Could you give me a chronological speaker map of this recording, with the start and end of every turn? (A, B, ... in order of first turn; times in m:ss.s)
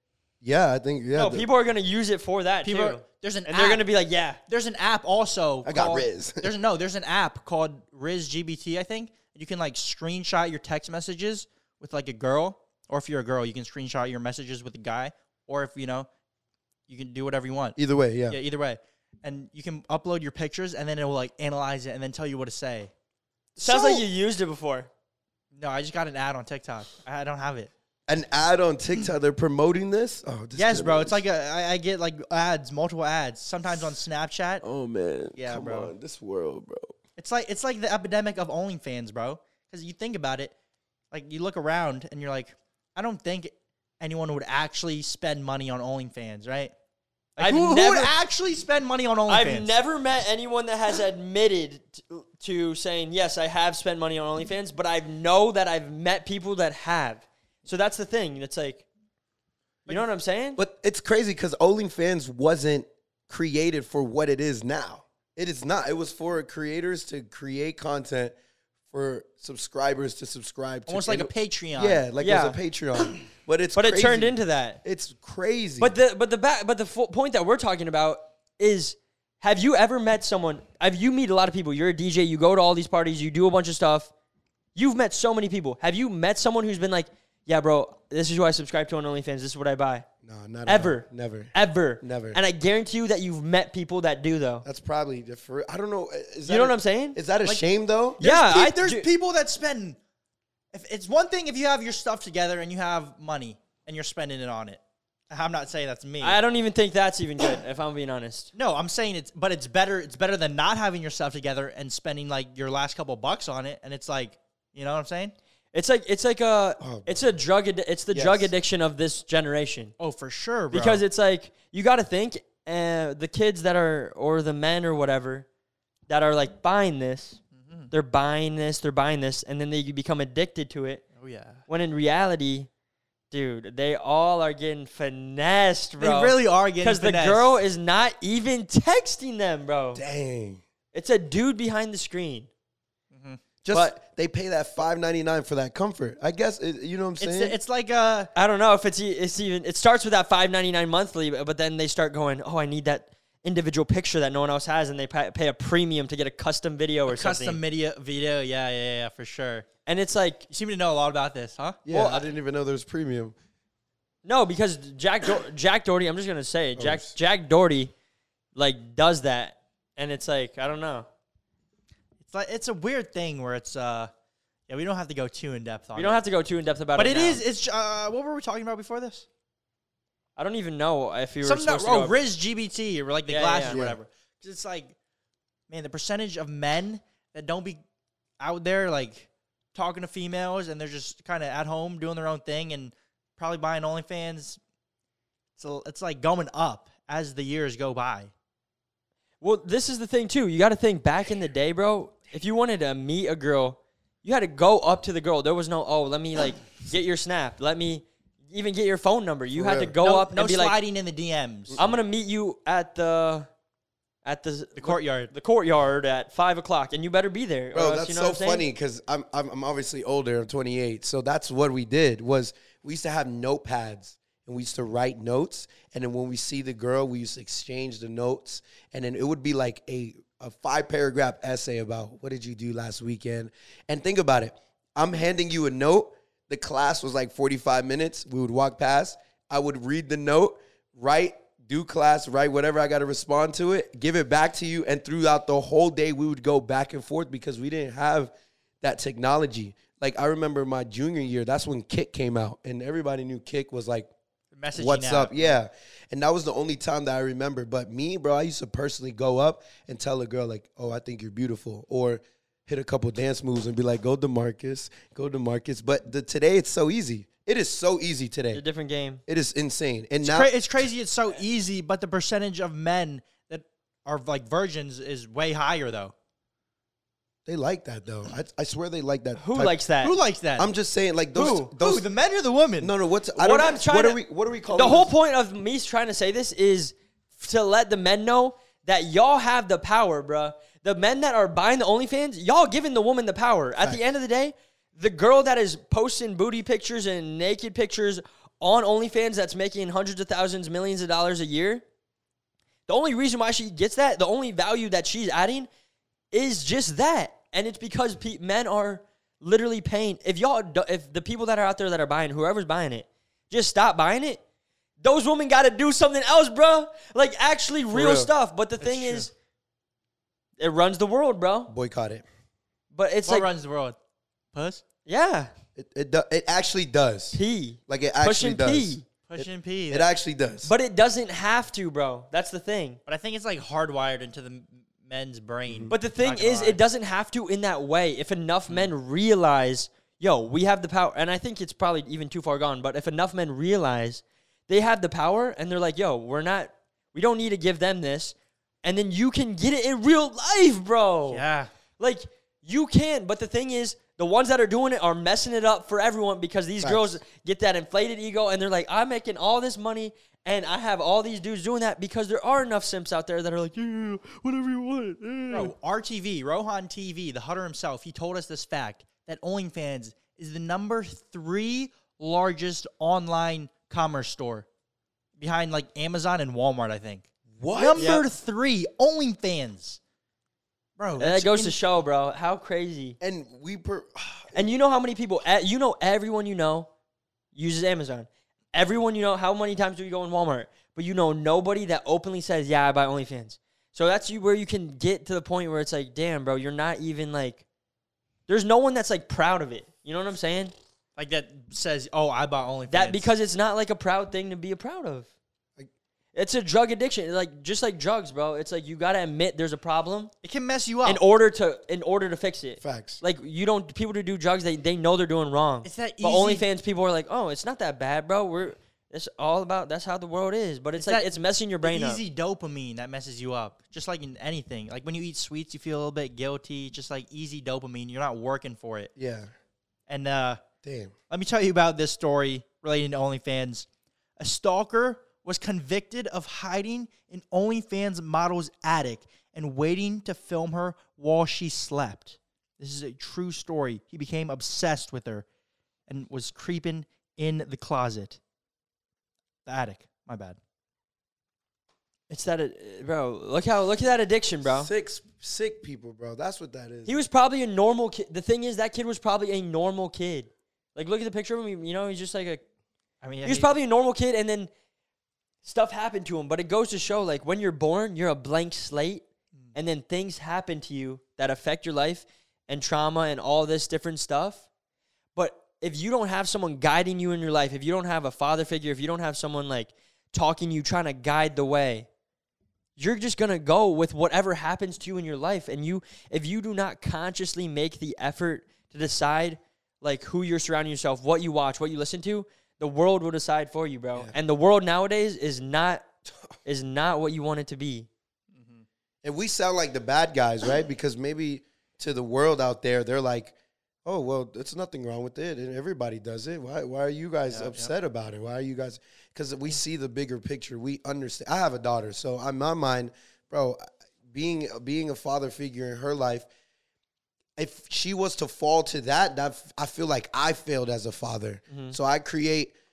0:00.4-0:01.4 A
0:01.1-0:04.4 B
0:02.6-0:03.8 C
0:04.5-0:16.1 C
0:05.6-0:06.5 A
0:16.9-0:17.8 C
0:17.8-0:18.4 A
0:18.3-0:22.9 C
0:23.6-0:24.9 B
0:23.6-0:24.0 C
0:25.5-0:27.7 C
0:28.1-0:31.2 A
0:30.5-0:34.6 C
0:34.6-0:37.0 A
0:35.3-0:35.9 C
0:37.2-0:40.5 C
0:41.1-0:46.7 C
0:47.4-0:49.7 C
0:47.4-0:48.1 B
0:49.3-0:58.9 B
0:59.9-1:00.6 B
1:00.6-1:08.3 A
1:08.9-1:15.9 A
1:10.9-1:12.0 C
1:12.2-1:12.6 B
1:13.7-1:14.8 B
1:15.8-1:24.1 B
1:24.7-1:30.1 B
1:30.2-1:32.4 A
1:30.6-1:34.6 B
1:34.6-1:38.2 A
1:36.5-1:37.2 B
1:38.2-1:40.0 C
1:38.2-1:39.0 B
1:40.7-1:46.4 C
1:46.2-1:48.5 B
1:48.5-1:55.3 C
1:55.7-1:59.9 B
1:56.8-1:57.1 A
1:58.1-1:58.5 A
2:00.0-2:01.0 C
2:00.7-2:05.4 B
2:06.1-2:07.4 B
2:07.5-2:07.9 C
2:07.9-2:11.0 B
2:11.2-2:11.6 C
2:11.7-2:12.7 B
2:13.3-2:20.0 B
2:16.0-2:17.5 C
2:19.9-2:20.6 A
2:20.9-2:22.5 B
2:23.1-2:23.4 C
2:23.6-2:27.6 A
2:27.2-2:28.3 C
2:28.3-2:37.6 B
2:37.1-2:39.7 C
2:39.8-2:40.5 B
2:40.5-2:41.8 C
2:41.8-2:43.3 A
2:41.9-2:42.2 B
2:44.2-2:47.9 B
2:46.8-2:47.1 A
2:48.5-2:51.1 B
2:52.2-2:54.1 C
2:54.7-2:56.2 C
2:56.0-2:57.4 B
2:56.9-2:59.2 C
3:00.4-3:02.1 B
3:01.4-3:04.9 C
3:03.3-3:03.8 B
3:03.7-3:04.0 A
3:05.7-3:07.8 C
3:08.4-3:14.6 C
3:15.6-3:18.3 C
3:19.4-3:30.7 B
3:29.5-3:29.9 A
3:30.0-3:31.8 C
3:31.7-3:32.0 A
3:31.8-3:33.5 B
3:34.2-3:38.6 B
3:34.8-3:35.3 C
3:37.7-4:14.1 A
4:14.5-4:15.5 C
4:14.7-4:28.6 A
4:28.5-4:29.2 B
4:29.3-4:30.5 A
4:30.2-4:36.1 C
4:37.4-4:39.8 A
4:39.4-4:40.1 B
4:40.0-4:40.7 C
4:40.6-4:42.1 A
4:41.4-4:41.7 B
4:41.4-4:42.9 C
4:42.8-4:45.1 A
4:43.4-4:44.2 B
4:44.7-5:01.8 B
5:02.9-5:05.7 B
5:06.3-5:14.4 B
5:15.0-5:19.3 B
5:17.9-5:18.3 A
5:18.8-5:19.2 C
5:20.6-5:21.7 B
5:21.7-5:22.2 A
5:22.9-5:23.5 B
5:23.2-5:24.0 C
5:24.5-5:24.8 C
5:25.0-5:25.5 B
5:25.8-5:30.7 A
5:27.3-5:29.0 B
5:29.3-5:30.1 C
5:30.6-5:33.0 B
5:33.1-5:36.8 C
5:35.7-5:35.9 A
5:35.9-5:51.4 B
5:51.3-5:51.7 C
5:52.0-6:05.7 B
5:56.8-5:57.2 A
6:05.5-6:14.6 C
6:15.4-6:20.0 C
6:17.6-6:18.2 A
6:18.0-6:18.2 B
6:21.0-6:21.7 C
6:21.2-6:23.2 B
6:23.2-6:24.5 A
6:24.5-6:26.9 B
6:27.5-6:37.6 B
6:38.5-6:40.7 B
6:41.2-6:43.3 C
6:42.9-6:45.3 B
6:46.3-6:50.3 B
6:50.4-6:51.2 C
6:51.0-7:02.2 B
6:52.8-6:53.2 A
6:55.8-6:56.6 C
7:01.0-7:01.3 C
7:01.8-7:09.1 C
7:09.2-7:09.5 A
7:10.1-7:10.6 C
7:10.8-7:11.1 A
7:11.3-7:13.8 C
7:14.4-7:25.4 C
7:26.1-7:28.4 C
7:29.6-7:30.6 C
7:32.3-7:34.9 B
7:34.6-7:37.2 A
7:37.0-7:42.6 B
7:43.2-7:43.7 C
7:43.4-7:44.7 B
7:45.6-7:54.6 B
7:55.3-8:02.1 B
8:03.0-8:16.0 B
8:16.6-8:18.1 B
8:18.5-8:18.8 C
8:19.2-8:23.5 A
8:24.0-8:36.5 A
8:27.5-8:27.9 C
8:37.6-8:42.7 A
8:41.7-8:42.0 B